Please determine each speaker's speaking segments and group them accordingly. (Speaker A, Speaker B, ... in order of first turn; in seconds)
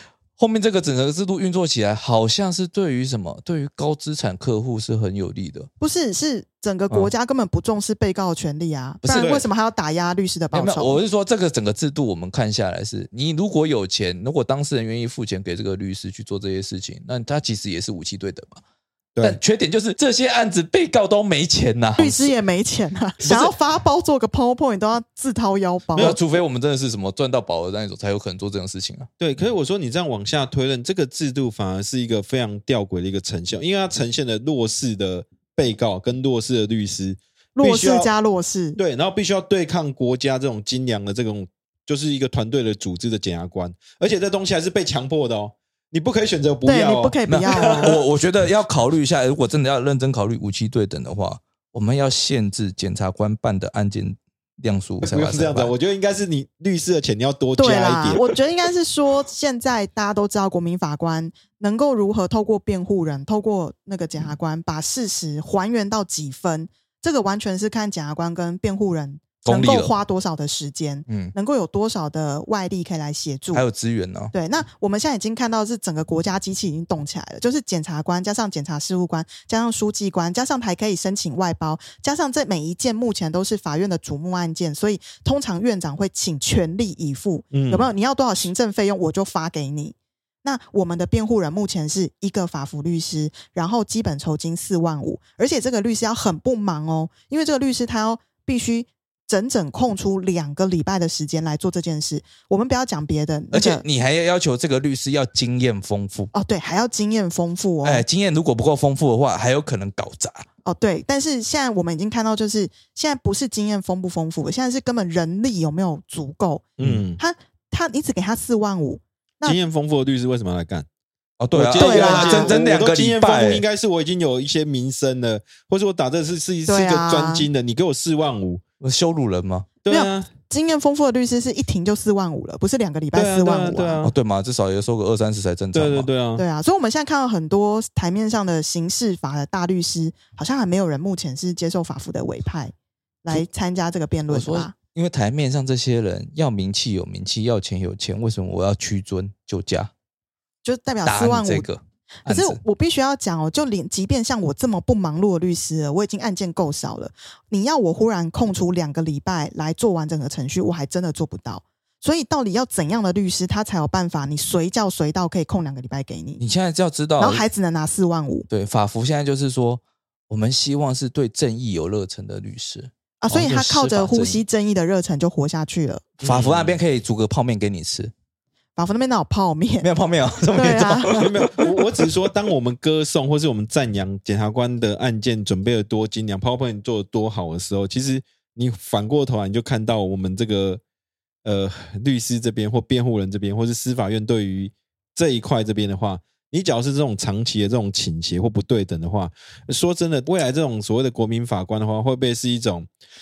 Speaker A: 0.3-5.7, 9.0-9.4, 10.5-18.6, 19.2-22.3, 23.2-23.5, 26.0-29.1, 47.3-55.7, 69.4-69.9, 71.1-71.3, 73.5-74.3, 103.5-106.3, 107.8-110.5, 121.4-123.6, 128.8-129.7, 134.0-136.1, 144.3-149.9, 151.0-152.6, 166.4-167.4, 168.5-174.4, 176.2-178.1, 179.8-181.7
Speaker B: 5.8-11.0, 22.0-26.1, 37.5-38.8, 46.6-47.9, 57.6-73.6, 74.3-103.8, 106.3-108.0, 110.6-116.7, 117.2-119.6, 121.8-122.6, 126.7-127.5, 129.9-134.1, 136.3-144.7, 150.6-151.7, 152.2-166.4, 167.2-168.5, 173.2-176.1, 178.8-179.9, 180.5-181.2
Speaker C: 9.1-9.4, 19.1-19.4, 29.2-38.1, 38.8-48.0, 55.0-58.2, 87.5-87.9, 116.8-117.2, 119.4-120.9, 121.5-128.6, 129.8-130.3, 133.1-134.1, 135.7-136.4, 176.2-176.8, 181.1-190.8, 191.4-202.9